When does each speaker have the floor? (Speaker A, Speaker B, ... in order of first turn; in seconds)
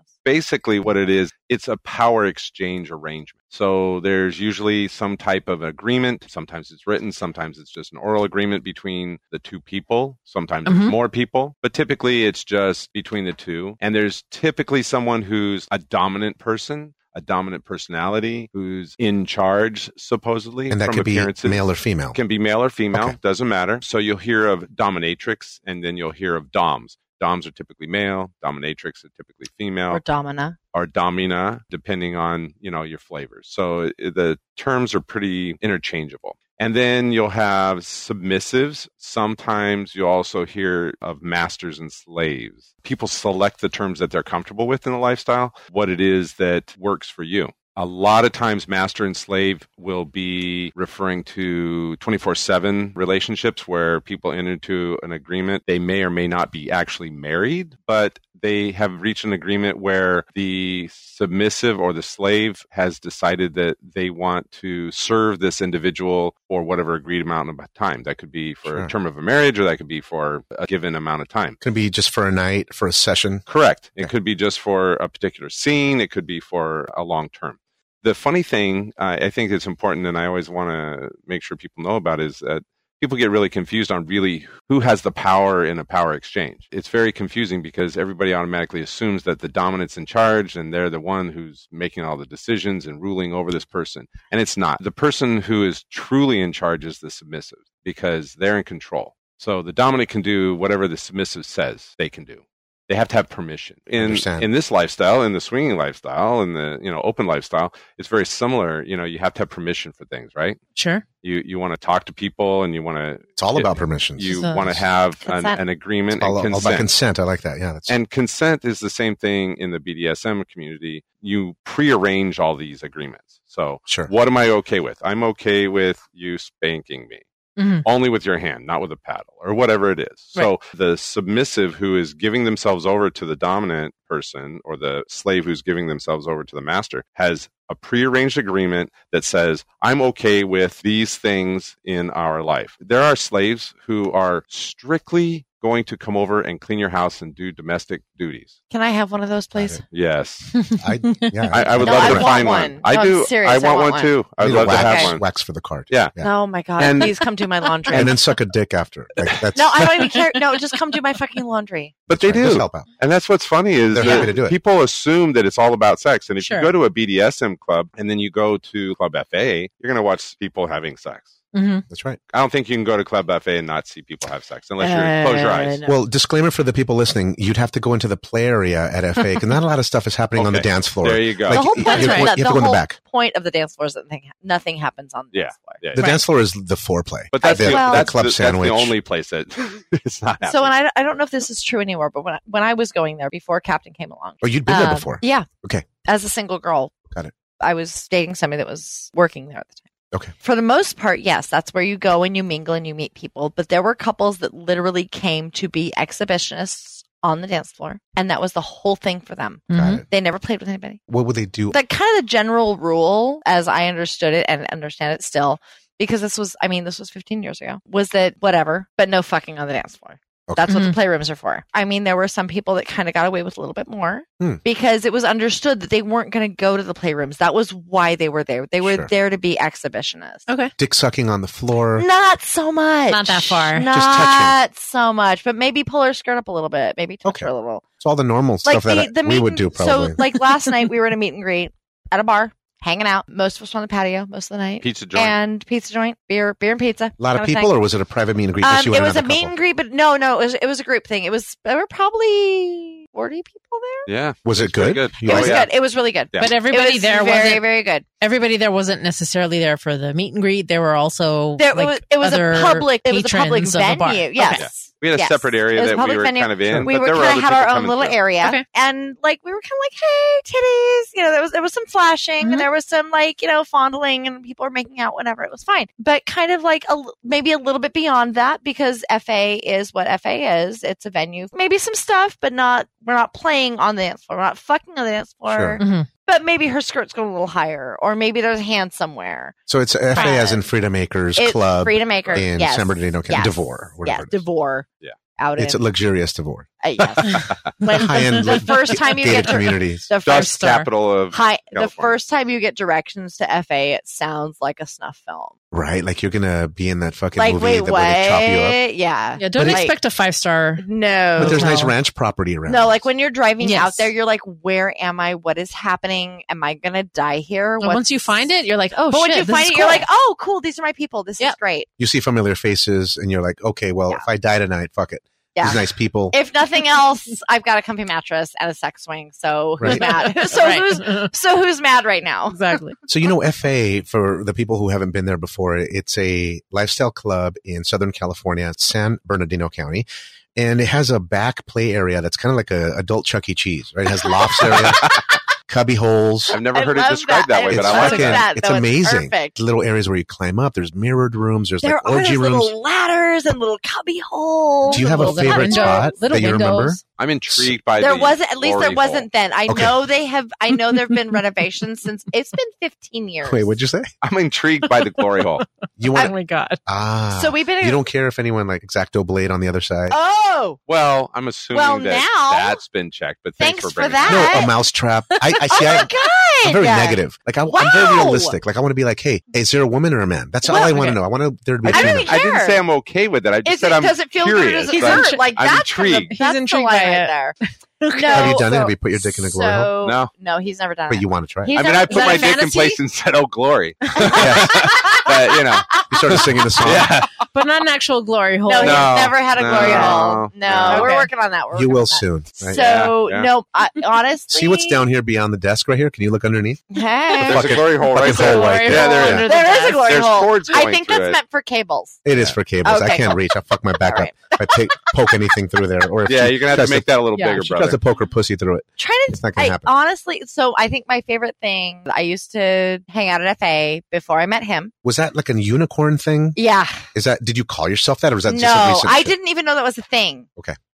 Speaker A: 0.2-21.6, 22.1-30.0, 30.7-71.6, 73.5-110.6, 111.2-116.9, 117.9-127.2, 127.8-148.5, 149.9-150.5, 151.5-155.2, 155.9-156.2, 156.8-157.2, 157.9-158.2, 162.1-171.3, 172.3-175.8, 180.3-181.8, 185.3-186.1, 187.3-190.7, 244.8-245.4, 254.1-255.7, 256.3-256.6, 264.5-268.2, 297.4-297.7, 300.2-302.2, 344.7-345.2, 346.5-348.5, 357.2-359.3, 364.2-365.6, 370.9-374.6, 381.9-386.3, 390.0-390.3, 391.7-397.4, 398.8-401.2, 402.7-403.5, 407.4-411.4, 416.2-418.0
Speaker B: 10.7-10.9, 110.8-111.0, 114.3-114.6, 127.6-127.8, 150.5-151.6, 166.4-166.7, 171.5-171.8, 181.8-182.3, 186.0-186.2, 209.7-210.0, 220.7-220.9, 233.1-233.9, 256.4-257.7, 258.2-264.6, 272.4-272.7, 285.8-286.1, 290.1-290.4, 297.9-299.1, 300.2-300.9, 309.4-310.8, 311.4-311.9, 313.6-314.1, 317.8-320.1, 329.9-331.3, 332.5-332.9, 354.9-357.0, 360.7-361.4, 364.9-365.6, 366.1-366.8, 380.7-381.2, 384.9-385.4, 386.3-387.3, 388.0-388.8, 392.1-393.0, 397.5-399.1, 399.7-400.2, 400.9-401.3, 408.1-410.1, 417.3-417.6
Speaker C: 20.7-22.2, 71.6-73.4, 104.0-104.5, 113.4-114.8, 116.1-117.9, 149.5-149.8, 150.8-152.7, 154.4-156.3, 157.9-160.1, 162.1-162.8, 163.9-164.6, 171.9-172.2, 175.8-182.9, 185.9-188.9, 194.4-195.8, 209.7-210.0, 211.1-211.8, 228.8-229.1, 230.8-232.1, 233.9-234.5, 237.2-237.5, 238.0-240.2, 247.2-249.5, 254.4-255.6, 266.7-266.9, 285.5-285.8, 289.7-294.4, 295.6-296.7, 297.9-300.1, 305.7-308.8, 309.6-309.8, 311.4-313.0, 322.0-326.3, 329.8-330.2, 333.1-346.6, 347.7-352.7, 354.9-357.0, 359.7-360.0, 363.4-364.1, 366.0-366.3, 366.9-370.1, 374.2-376.1, 376.6-382.4, 388.3-389.9, 391.1-391.8, 394.3-394.9, 396.1-397.1, 401.7-402.9, 404.5-406.8, 407.4-409.5, 412.2-419.9, 425.0-426.6, 427.1-429.3
Speaker D: 29.9-30.6, 115.2-115.6, 148.7-149.8, 151.8-155.1, 156.2-158.1, 159.5-162.0, 164.0-164.3, 174.8-176.0, 181.5-185.8, 187.4-188.1, 190.4-195.5, 196.0-196.9, 197.6-199.8, 200.4-211.0, 211.7-230.5, 231.9-237.8, 238.6-247.7, 248.6-254.1, 255.2-258.0, 261.6-289.5, 290.1-290.6, 291.4-294.9, 295.4-295.8, 296.8-300.6, 301.3-305.5, 307.4-310.0, 310.8-311.8, 312.7-318.4, 319.1-321.9, 325.5-332.8, 344.2-345.1, 346.7-349.6, 351.8-356.1, 358.0-363.7, 367.3-368.0, 370.1-370.8, 371.7-372.8, 373.6-374.7, 375.7-378.6, 380.6-381.1, 381.9-382.8, 383.6-387.6, 388.1-392.6, 394.2-395.5, 398.7-405.0, 406.9-407.9, 408.9-412.2, 412.8-413.4, 414.0-415.4, 419.0-424.9, 426.6-427.0, 428.5-430.5